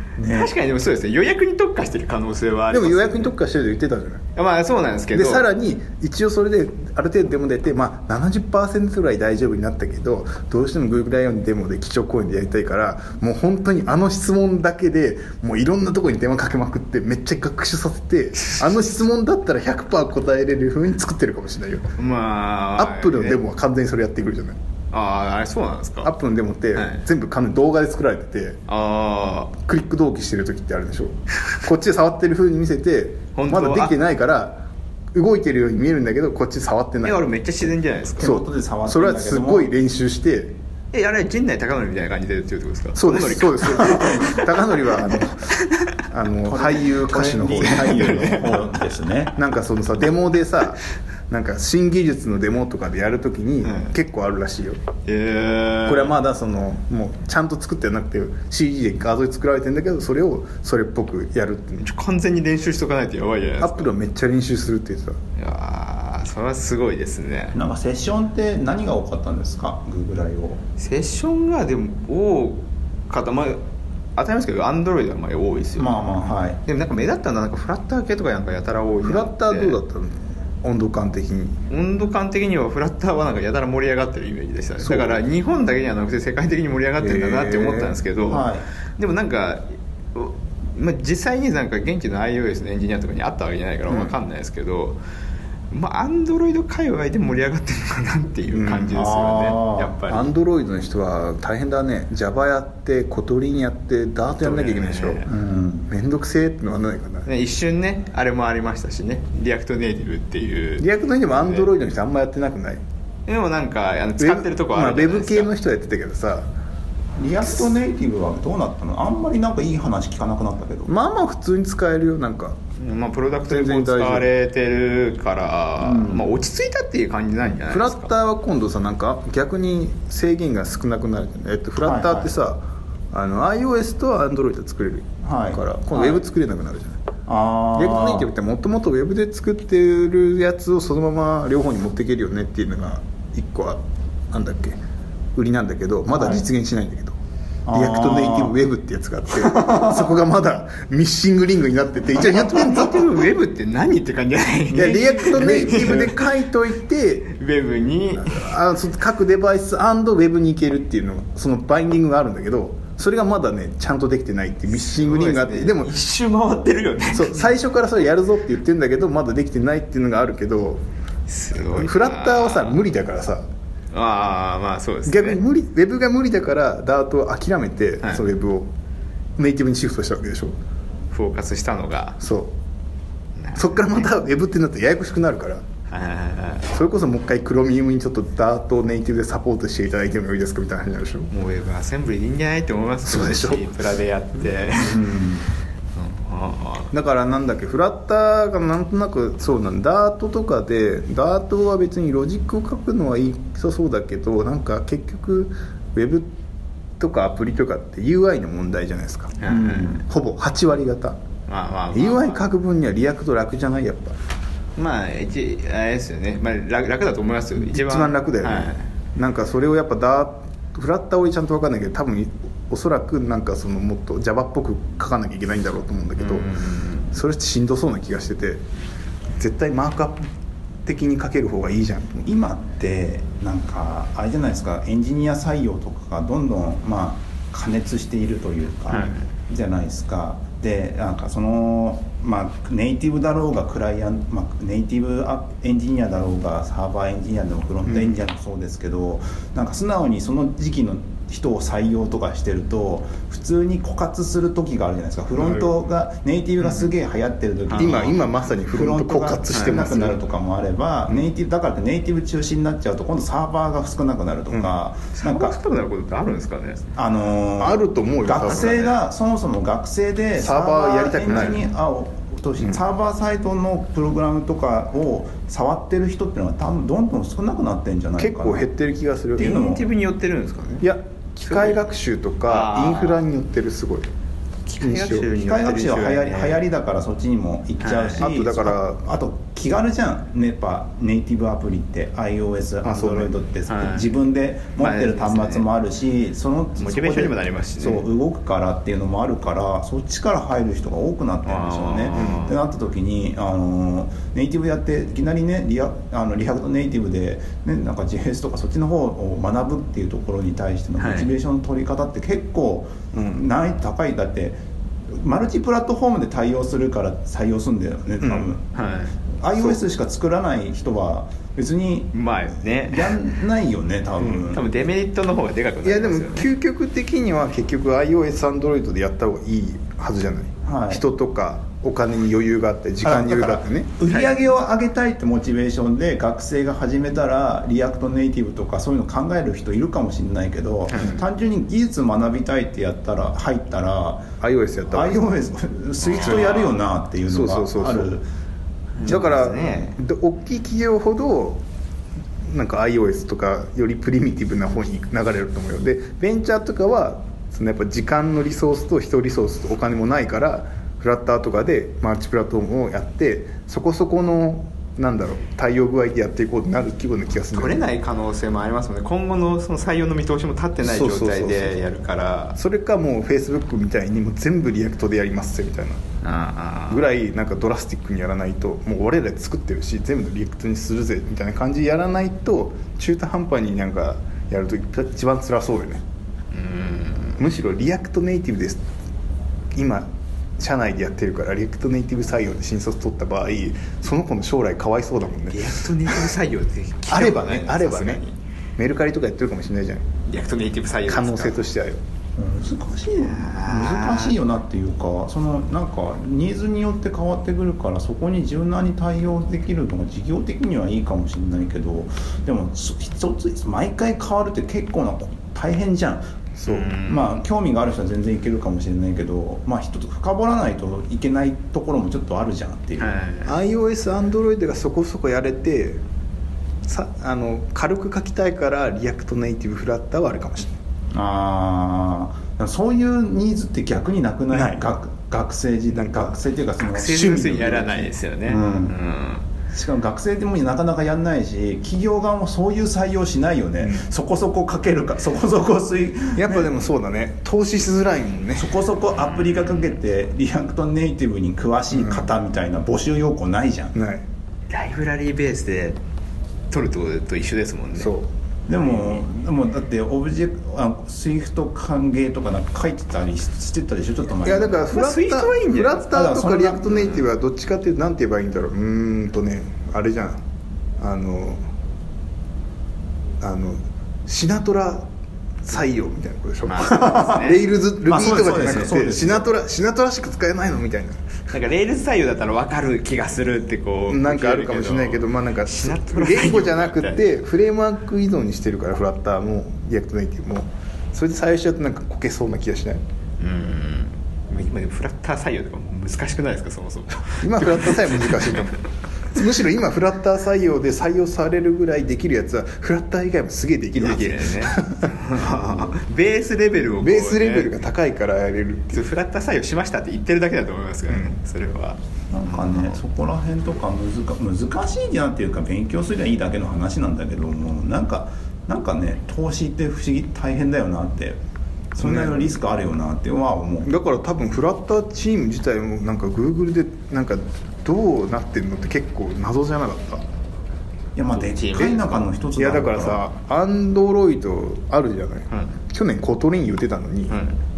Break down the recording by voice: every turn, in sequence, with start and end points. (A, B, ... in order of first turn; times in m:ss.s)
0:00.2-0:00.5 A
0:00.2-0:03.3 B
0:02.7-0:04.2 C
0:04.4-0:05.4 B
0:05.1-0:21.9 C
0:22.0-0:23.4 B
0:22.8-0:24.6 C
0:24.9-0:26.1 B
0:26.0-0:28.6 C
0:26.7-0:27.0 B
0:28.7-0:29.5 B
0:29.6-0:37.3 C
0:33.3-0:34.0 B
0:37.0-0:38.3 B
0:38.2-0:39.7 A
0:38.2-0:40.5 C
0:40.9-0:46.0 B
0:43.0-0:48.4 C
0:46.4-0:49.3 A
0:47.6-0:48.7 B
0:49.3-0:54.8 C
0:53.6-0:53.9 B
0:55.0-0:56.1 B
0:55.9-1:01.8 C
1:01.8-1:03.9 B
1:03.6-1:05.2 C
1:05.4-1:07.6 B
1:07.5-1:10.6 A
1:10.8-1:13.6 B
1:14.2-1:16.0 B
1:15.8-1:16.6 A
1:16.6-1:19.8 B
1:19.0-1:21.6 C
1:21.7-1:35.0 B
1:24.8-1:25.2 C
1:27.0-1:28.0 C
1:28.3-1:28.6 A
1:35.7-1:40.3 B
1:38.5-1:39.0 C
1:38.9-1:40.0 A
1:40.1-1:45.2 C
1:44.4-1:45.3 B
1:45.2-1:45.9 A
1:45.9-1:47.3 C
1:47.2-1:51.7 B
1:50.8-1:52.8 C
1:53.3-1:55.5 B
1:54.2-1:56.5 C
1:57.2-2:00.9 A
2:00.9-2:02.6 C
2:02.8-2:08.1 B
2:03.5-2:04.3 C
2:05.8-2:06.3 A
2:07.7-2:17.0 C
2:11.8-2:12.3 A
2:15.2-2:16.2 A
2:17.3-2:18.3 A
2:17.8-2:23.8 C
2:24.3-2:24.8 C
2:25.4-2:27.2 C
2:26.1-2:26.4 A
2:27.7-2:28.5 A
2:27.7-2:33.1 C
2:29.4-2:30.0 A
2:32.2-2:36.3 B
2:34.7-2:37.3 C
2:37.3-2:38.5 B
2:38.2-2:45.9 C
2:44.7-2:47.5 B
2:47.1-2:50.8 C
2:51.3-2:52.8 B
2:51.6-2:53.4 C
2:53.9-2:55.4 B
2:55.0-2:58.7 C
2:59.4-3:00.5 C
3:01.1-3:02.2 B
3:02.2-3:02.5 C
3:03.4-3:04.1 B
3:03.5-3:05.6 C
3:05.9-3:06.7 B
3:06.7-3:11.3 C
3:11.3-3:15.1 B
3:13.0-3:13.7 C
3:14.8-3:15.4 A
3:16.0-3:16.9 B
3:16.9-3:26.3 C
3:27.0-3:29.4 C
3:29.4-3:30.0 B
3:29.5-3:30.0 A
3:30.0-3:31.2 C
3:31.5-3:32.4 B
3:31.9-3:34.2 C
3:34.8-3:38.8 B
3:37.6-3:46.5 C
3:46.2-3:47.1 B
3:47.1-3:48.6 C
3:49.4-3:50.3 C
3:50.8-3:52.3 C
3:52.2-4:25.6 A
3:58.9-3:59.2 B
4:07.9-4:08.2 C
4:15.4-4:15.7 C
4:17.7-4:18.1 B
4:17.7-4:20.2 C
4:19.5-4:19.8 B
4:25.1-4:26.9 B
4:27.0-4:38.7 A
4:27.6-4:29.0 C
4:30.4-4:31.7 C
4:38.2-4:39.6 C
4:39.4-4:39.8 A
4:39.4-4:40.8 B
4:40.8-4:44.1 C
4:41.4-4:41.8 B
4:42.4-4:43.2 B
4:44.7-4:46.6 B
4:44.8-4:45.3 C
4:45.4-5:14.6 A
4:47.8-4:48.2 B
4:48.2-4:49.0 C
4:52.8-4:53.3 C
4:53.7-4:54.1 B
4:54.8-4:55.6 B
4:56.8-4:58.1 B
5:01.4-5:02.6 B
5:11.0-5:11.3 B
5:15.1-5:18.6 A
5:18.2-5:18.5 C
5:18.7-5:19.2 B
5:19.4-5:22.1 A
5:22.1-5:23.2 B
5:22.9-5:24.6 A
5:24.5-5:26.5 B
5:25.8-5:34.0 C
5:30.6-5:31.0 A
5:33.0-5:44.3 A
5:40.9-5:41.2 B
5:44.4-5:45.2 C
5:44.9-5:48.2 A
5:46.0-5:46.6 B
5:47.3-5:48.1 C
5:49.0-5:50.0 B
5:49.0-5:51.6 C
5:52.5-6:07.8 C
6:07.5-6:12.6 B
6:10.8-6:11.8 C
6:12.6-6:16.0 C
6:16.2-6:17.0 B
6:16.9-6:26.0 C
6:26.5-6:27.4 B
6:27.4-6:28.8 C
6:29.7-6:30.1 C
6:30.6-6:36.3 C
6:35.5-6:38.4 B
6:37.1-6:38.2 C
6:38.8-6:40.0 C
6:40.3-6:41.6 B
6:41.1-6:42.0 C
6:42.4-6:56.3 A
6:43.2-6:44.4 B
6:56.6-6:56.9 C
6:56.6-6:57.4 B
6:57.0-7:03.2 A
7:03.0-7:03.6 B
7:03.4-7:06.0 C
7:06.8-7:10.8 C
7:11.1-7:19.0 A
7:14.5-7:14.9 C
7:15.9-7:16.4 C
7:16.8-7:19.4 B
7:17.3-7:17.9 C
7:19.7-7:26.7 A
7:26.3-7:28.7 C
7:28.6-7:33.9 A
7:29.3-7:29.8 B
7:31.9-7:32.3 C
7:33.9-7:34.2 C
7:34.7-7:36.0 B
7:36.7-7:38.1 B
7:38.0-7:38.3 C
7:38.7-7:44.9 A
7:44.4-7:50.4 C
7:44.9-7:46.2 B
7:46.1-7:47.1 A
7:46.9-7:47.2 B
7:51.0-7:51.6 C
7:53.4-7:55.1 C
7:55.6-8:01.2 C
7:56.6-7:57.6 B
7:58.0-7:59.5 A
8:01.5-8:07.2 B
8:04.1-8:13.0 C
8:13.4-8:18.7 B
8:17.4-8:26.0 C
8:23.9-8:27.7 B
8:27.0-8:29.0 C
8:28.9-8:33.0 B
8:32.3-8:41.4 A
8:41.9-8:43.9 A
8:42.0-8:42.6 C
8:43.8-8:50.2 C
8:51.1-8:53.2 A
8:51.4-8:52.2 B
8:52.6-8:57.4 C
8:57.3-8:57.6 B